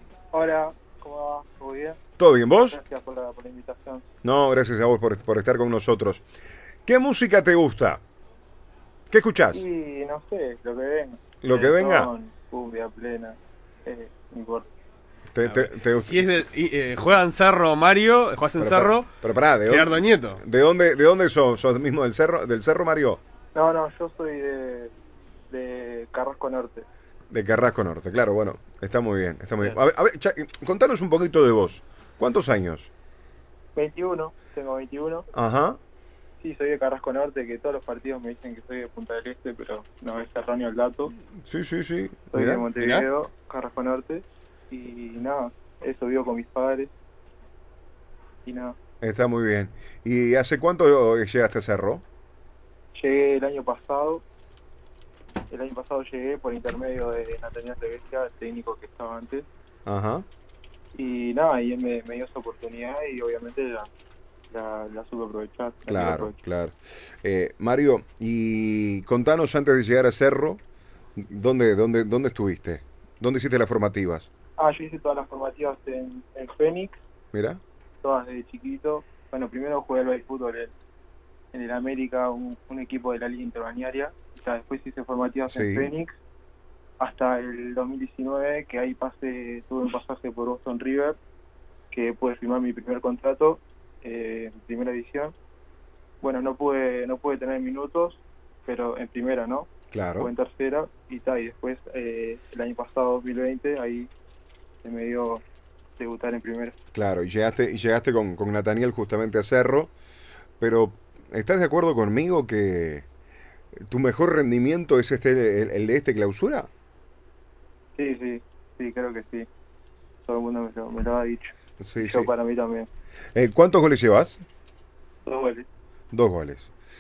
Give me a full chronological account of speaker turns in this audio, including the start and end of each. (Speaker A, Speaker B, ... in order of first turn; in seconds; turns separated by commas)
Speaker A: 0.3-2.0, Speaker B: 2.2-2.8, Speaker A: 2.7-4.0, Speaker B: 4.2-6.2, Speaker B: 6.8-8.0, Speaker B: 9.1-9.7, Speaker A: 9.5-14.7, Speaker B: 11.4-12.1, Speaker B: 15.3-16.3, Speaker C: 15.4-19.1, Speaker B: 18.6-23.2, Speaker C: 19.6-20.4, Speaker A: 23.5-24.9, Speaker A: 25.5-26.9, Speaker B: 27.3-32.9, Speaker A: 33.7-35.3, Speaker B: 35.3-35.8, Speaker A: 36.4-41.1, Speaker B: 41.4-42.7, Speaker A: 42.3-46.9, Speaker C: 42.8-43.0, Speaker A: 48.4-48.8, Speaker B: 49.0-52.0, Speaker A: 52.9-54.2, Speaker A: 55.5-59.5, Speaker B: 59.9-60.2, Speaker A: 60.9-63.9, Speaker A: 64.5-66.4, Speaker B: 65.9-70.6, Speaker B: 71.2-74.3, Speaker A: 74.6-77.0, Speaker B: 77.3-77.6, Speaker A: 78.0-80.7, Speaker A: 81.5-86.1, Speaker B: 85.5-85.9, Speaker A: 87.0-91.2, Speaker A: 91.9-95.3, Speaker A: 96.2-104.1, Speaker B: 99.9-100.3, Speaker A: 104.8-105.4, Speaker A: 106.0-106.7, Speaker B: 106.9-109.9, Speaker B: 110.6-113.0, Speaker B: 113.8-116.7, Speaker A: 118.0-119.5, Speaker A: 120.2-122.9, Speaker B: 121.8-122.3, Speaker B: 123.3-124.4, Speaker A: 125.2-125.7, Speaker B: 126.1-126.7